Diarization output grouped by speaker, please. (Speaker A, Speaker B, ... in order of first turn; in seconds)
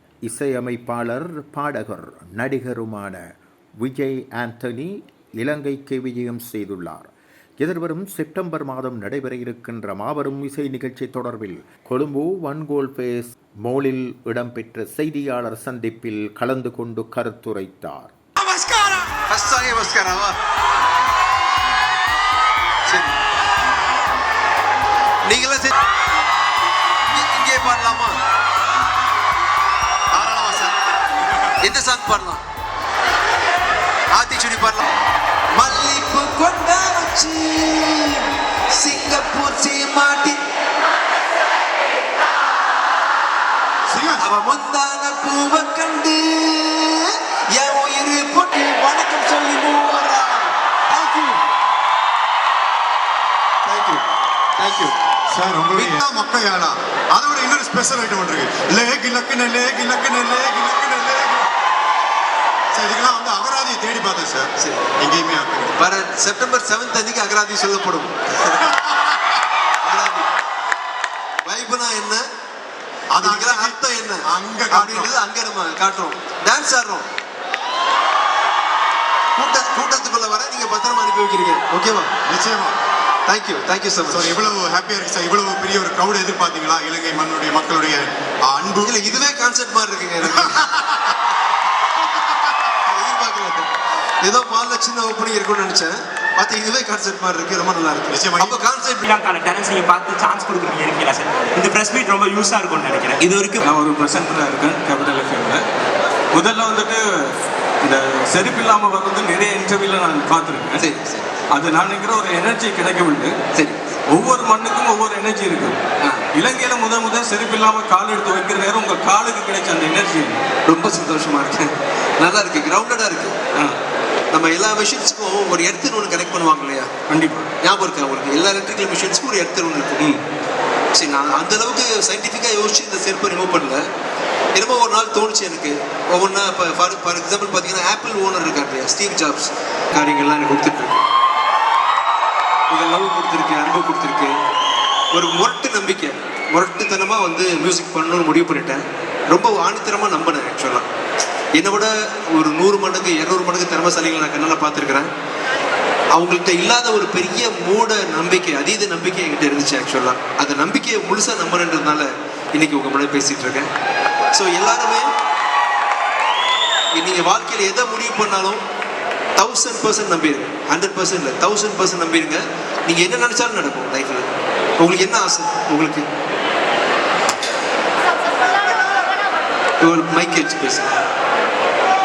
Speaker A: 0.2-3.2, 3.8-7.1, 7.6-18.1
Speaker B: 18.4-20.3, 22.9-23.1, 25.2-25.8, 27.1-28.2, 30.1-30.7, 31.6-32.4, 34.1-34.9, 35.5-40.4, 44.2-51.4, 53.6-54.0, 54.6-55.0, 64.6-64.9, 65.8-68.7, 69.8-70.3, 71.4-72.2, 73.2-77.1, 79.3-82.1, 83.2-84.3, 88.8-90.7, 92.8-93.7, 94.2-99.1, 110.8-111.3, 113.5-113.9, 120.7-123.4, 124.3-126.9, 127.6-130.1, 130.9-133.8, 134.5-141.0, 142.7-144.3, 145.1-150.8, 151.5-155.1, 156.1-163.7, 164.3-165.1, 166.9-168.6, 169.3-174.3, 174.8-176.1, 179.8-180.9
Speaker C: 43.9-44.2, 55.3-61.5, 62.7-65.8, 68.8-69.2, 73.1-75.1, 82.3-82.8, 84.1-89.2, 90.3-90.9, 98.1-98.6
Speaker D: 99.0-103.6
Speaker E: 103.6-105.6, 106.3-107.3, 107.8-110.8, 111.5-113.4, 114.1-115.8, 116.3-120.4, 127.1-127.5